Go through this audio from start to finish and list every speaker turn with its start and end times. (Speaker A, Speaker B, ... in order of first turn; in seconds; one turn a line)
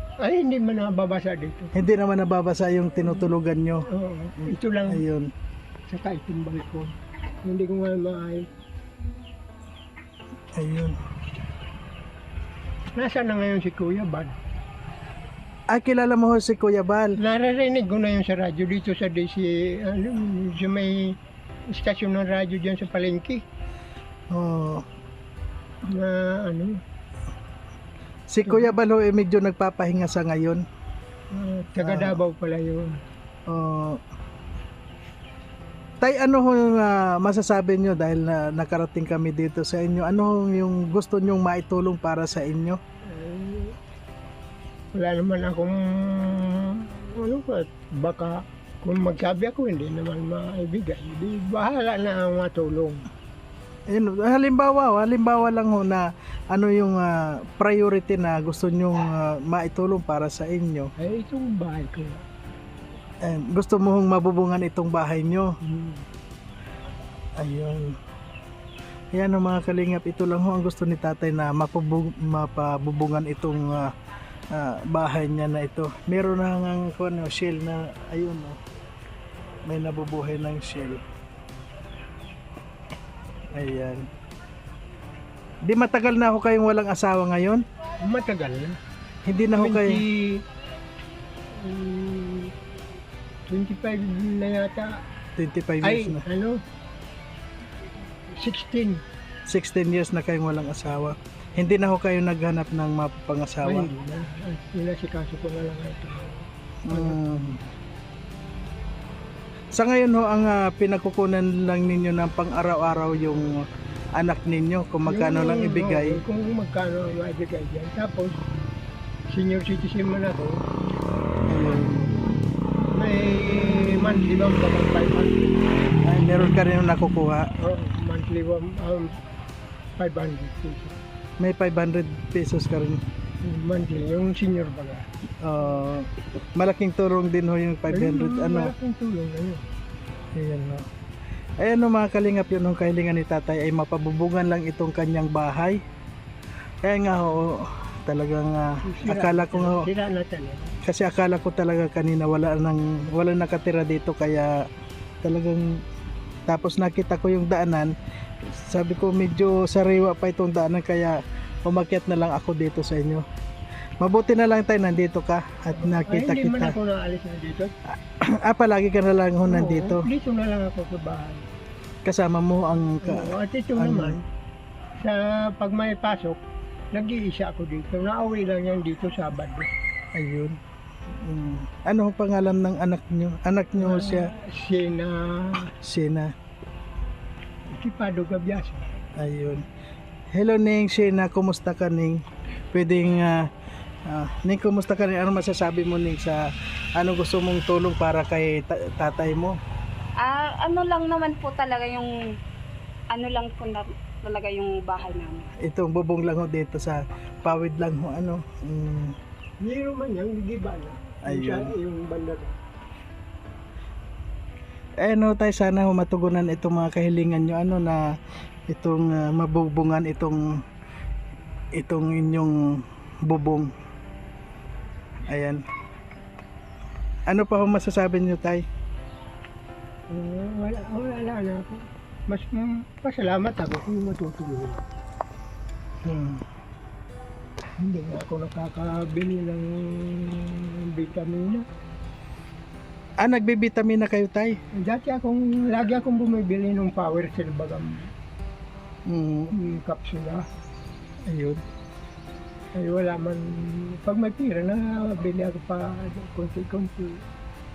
Speaker A: 0.2-1.7
Speaker B: 1.8-3.9
Speaker A: 3.9-5.0
Speaker B: 4.4-5.3
Speaker A: 5.9-8.5
Speaker B: 10.6-11.0
Speaker A: 12.9-14.4
Speaker B: 15.7-17.2
Speaker A: 17.2-21.2
Speaker A: 21.7-23.4
Speaker B: 24.3-24.9
Speaker A: 25.9-26.8
Speaker B: 28.3-30.6
Speaker A: 31.3-33.0
Speaker B: 31.8-32.2
Speaker B: 33.5-34.0
Speaker B: 36.0-42.8
Speaker A: 43.0-43.8
Speaker A: 44.9-53.1
Speaker B: 53.9-60.9
Speaker A: 61.0-62.2
Speaker B: 63.2-65.5
Speaker A: 65.6-66.0
Speaker B: 67.4-68.0
Speaker B: 69.1-73.9
Speaker B: 74.5-78.6
Speaker B: 79.7-81.0
Speaker B: 83.5-84.1
Speaker B: 85.6-87.6
Speaker A: 88.0-88.8
Speaker B: 89.2-90.0
Speaker A: 89.5-90.4
Speaker A: 91.5-92.5
Speaker A: 93.5-95.0
Speaker B: 95.4-96.2
Speaker A: 95.8-96.6
Speaker A: 98.3-99.0
Speaker B: 99.5-103.9
Speaker A: 103.6-107.2
Speaker B: 106.9-107.6
Speaker B: 109.7-113.7
Speaker B: 114.2-116.2
Speaker A: 115.1-118.4
Speaker A: 119.3-120.6
Speaker B: 121.5-122.1
Speaker A: 122.9-125.6
Speaker B: 126.1-127.5
Speaker A: 127.6-129.2
Speaker A: 130.0-130.9
Speaker B: 131.4-133.0
Speaker A: 133.4-135.1
Speaker B: 135.4-138.7
Speaker A: 137.9-139.6
Speaker B: 140.3-140.9
Speaker B: 141.6-145.8
Speaker B: 146.8-149.9
Speaker A: 148.8-150.8
Speaker B: 150.8-154.6
Speaker B: 155.2-155.8
Speaker B: 156.5-157.9
Speaker B: 158.4-163.2
Speaker B: 164.0-166.8
Speaker A: 165.8-167.8
Speaker B: 168.2-170.1
Speaker A: 169.4-171.4
Speaker B: 172.1-174.2
Speaker A: 173.0-174.2
Speaker A: 175.0-176.4
Speaker A: 176.9-179.7
Speaker B: 180.1-180.6
Speaker B: 181.1-184.3
Speaker A: 183.8-185.7
Speaker B: 185.8-186.3
Speaker A: 187.7-188.9
Speaker B: 189.2-189.6
Speaker B: 190.3-192.2
Speaker B: 192.7-193.5
Speaker B: 194.1-196.4
Speaker B: 197.0-199.6
Speaker C: 200.2-202.1
Speaker C: 203.1-205.5
Speaker B: 205.6-209.1
Speaker A: 209.6-212.6
Speaker B: 211.2-211.7
Speaker B: 215.0-218.0
Speaker B: 218.7-220.4
Speaker B: 221.8-223.7
Speaker B: 225.3-225.6
Speaker B: 227.3-228.6
Speaker A: 230.1-234.8
Speaker B: 236.1-236.4
Speaker A: 237.8-241.6
Speaker B: 243.2-244.6
Speaker A: 244.8-248.1
Speaker B: 249.1-249.5
Speaker A: 249.5-250.4
Speaker B: 251.3-251.6
Speaker A: 252.8-257.2